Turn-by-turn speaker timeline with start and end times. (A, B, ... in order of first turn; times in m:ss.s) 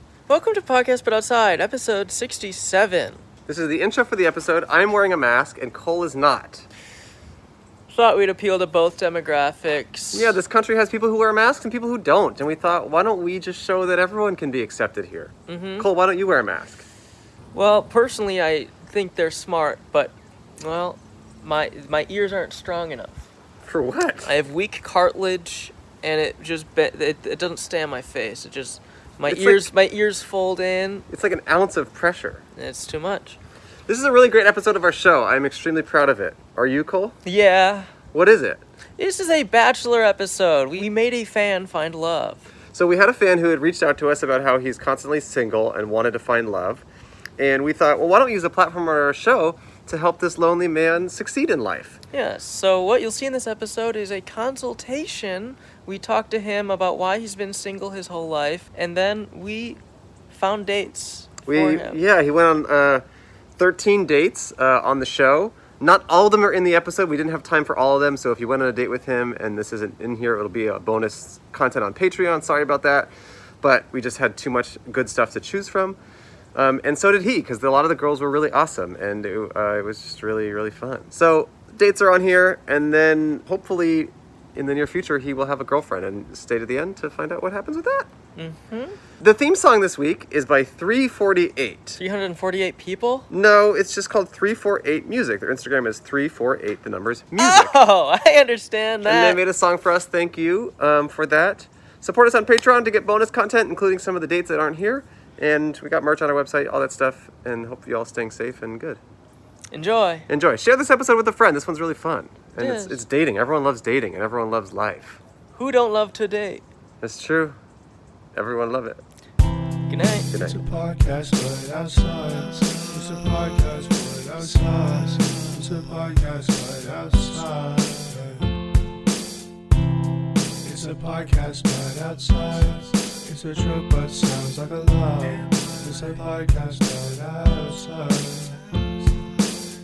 0:00.3-0:03.2 A
0:03.5-0:06.7 B
0:07.9-0:10.4 A
0:10.1-0:16.8 B
0:15.5-0:15.9 A
0:17.5-0:23.2 A
0:23.6-0:24.3 B
0:24.2-0:31.0 A
0:29.3-0:29.7 B
0:31.1-0:32.4 B
0:32.6-0:33.4 A
0:33.9-0:37.2 B
0:37.2-0:37.9 A
0:38.1-0:38.6 B
0:39.0-0:42.5 A
0:42.7-0:46.8 B
0:47.4-0:52.0 B
0:52.1-1:02.0 A
1:01.4-1:03.0 B
1:03.6-1:13.1 B
1:13.6-1:16.0 B
1:16.5-1:28.1 B
1:28.4-1:29.0 A
1:29.2-1:32.0 B
1:32.0-1:33.3 A
1:33.3-1:37.8 B
1:37.4-1:39.4 A
1:39.0-1:49.0 B
1:49.7-1:50.2 A
1:50.3-1:55.2 B
1:52.6-1:53.0 A
1:55.5-1:56.6 A
1:57.0-1:57.6 B
1:58.3-1:59.0 B
1:59.9-2:00.3 A
2:00.3-2:00.6 B
2:00.4-2:08.5 C
2:10.6-2:19.3 C